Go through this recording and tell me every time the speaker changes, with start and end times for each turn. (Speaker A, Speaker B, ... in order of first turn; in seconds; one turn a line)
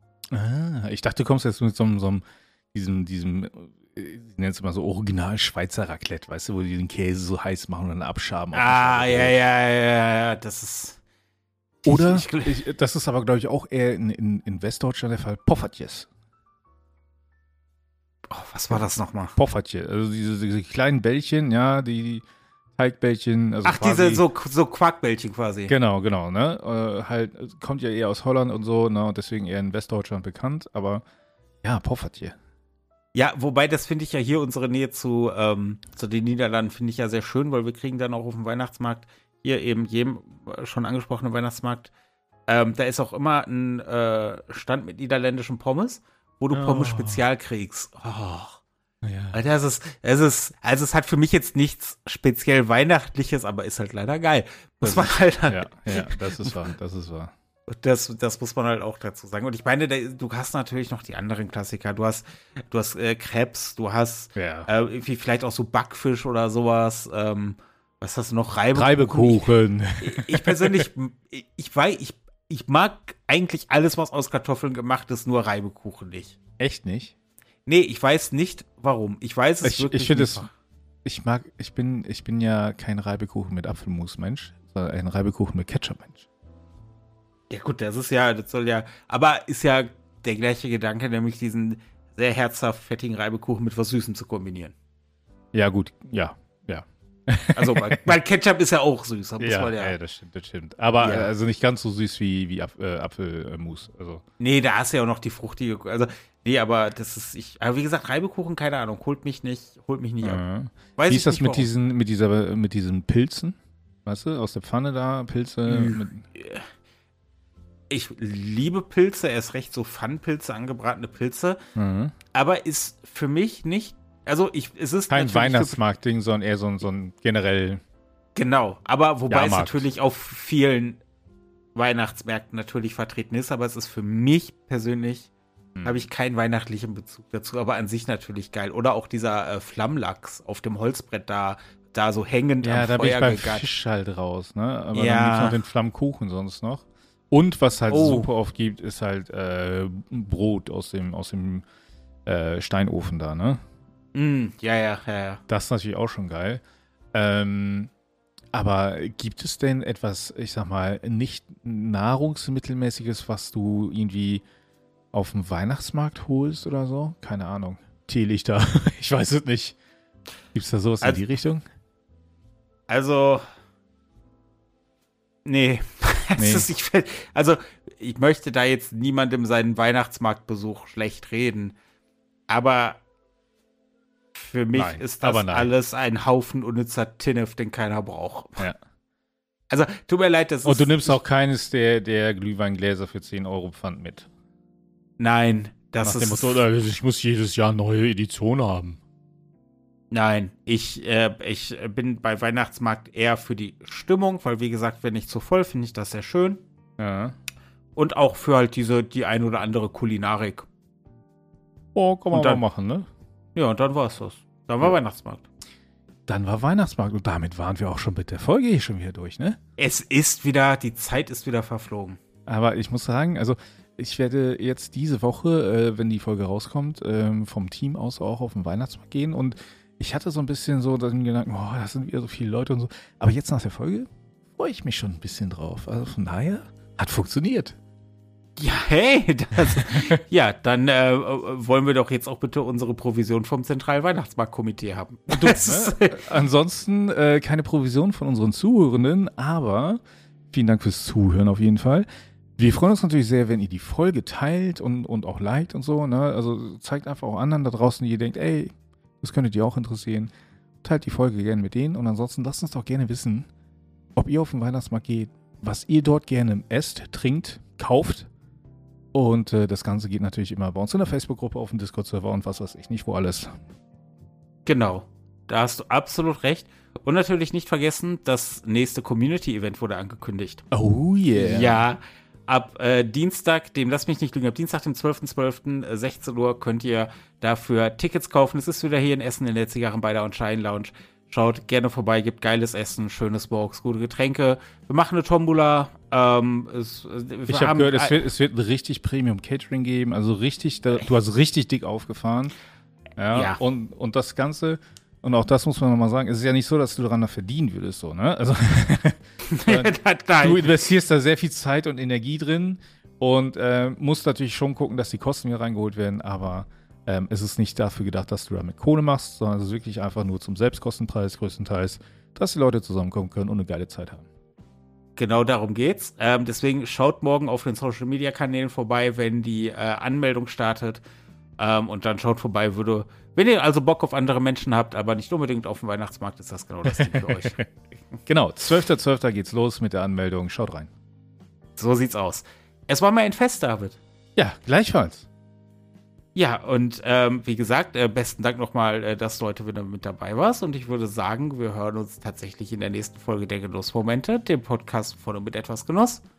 Speaker A: 0.3-9.4
Speaker B: 8.5-11.0
Speaker B: 11.8-12.6
Speaker A: 11.9-16.1
Speaker B: 18.3-19.4
Speaker A: 19.4-22.2
Speaker A: 22.8-24.2
Speaker B: 23.6-25.7
Speaker A: 25.7-31.0
Speaker A: 31.6-32.4
Speaker B: 33.1-41.9
Speaker B: 42.5-48.6
Speaker A: 46.5-47.2
Speaker A: 49.0-49.4
Speaker B: 49.3-56.7
Speaker A: 54.8-57.3
Speaker B: 57.7-76.4
Speaker A: 64.3-64.7
Speaker A: 68.7-70.8
Speaker A: 76.6-77.1
Speaker B: 77.7-80.5
Speaker A: 79.6-80.5
Speaker A: 81.0-86.2
Speaker B: 87.5-94.7
Speaker A: 95.5-98.2
Speaker B: 97.5-99.9
Speaker A: 99.4-104.2
Speaker B: 101.0-101.3
Speaker B: 104.4-110.4
Speaker A: 110.2-116.2
Speaker B: 111.0-111.7
Speaker B: 115.7-116.7
Speaker B: 117.9-121.6
Speaker A: 121.7-122.1
Speaker B: 122.3-125.8
Speaker A: 125.1-127.8
Speaker B: 128.3-131.0
Speaker A: 129.3-129.8
Speaker B: 131.7-135.3
Speaker A: 135.8-136.1
Speaker B: 135.8-143.7
Speaker A: 142.6-151.6
Speaker B: 144.9-145.6
Speaker B: 147.9-148.3
Speaker A: 152.2-153.6
Speaker B: 154.1-155.4
Speaker A: 155.5-156.6
Speaker A: 157.1-157.9
Speaker A: 158.5-164.4
Speaker A: 165.1-169.8
Speaker A: 170.5-171.6
Speaker B: 172.9-173.4
Speaker B: 175.4-181.7
Speaker A: 176.4-176.7
Speaker B: 182.5-183.0
Speaker B: 184.3-188.6
Speaker A: 184.7-185.7
Speaker B: 189.7-191.2
Speaker A: 190.6-194.3
Speaker B: 195.2-196.6
Speaker A: 196.0-199.0
Speaker B: 200.1-206.6
Speaker A: 207.0-207.3
Speaker B: 207.9-210.7
Speaker A: 211.9-213.1
Speaker B: 212.3-212.6
Speaker B: 213.5-215.5
Speaker A: 216.3-219.6
Speaker B: 219.8-222.2
Speaker A: 222.4-237.8
Speaker B: 238.6-246.2
Speaker A: 239.7-240.1
Speaker A: 245.3-250.0
Speaker A: 250.5-252.1
Speaker A: 252.6-260.3
Speaker A: 260.8-263.5
Speaker A: 264.1-268.3
Speaker A: 269.1-273.5
Speaker B: 274.6-280.6
Speaker A: 280.7-281.8
Speaker B: 281.3-298.2
Speaker A: 297.5-302.5
Speaker A: 303.2-324.2
Speaker B: 303.3-303.6
Speaker B: 309.5-310.6
Speaker B: 325.1-331.0
Speaker B: 331.6-337.6
Speaker A: 336.9-337.6
Speaker A: 338.3-340.9
Speaker B: 341.8-344.0
Speaker A: 344.4-345.3
Speaker B: 346.3-356.2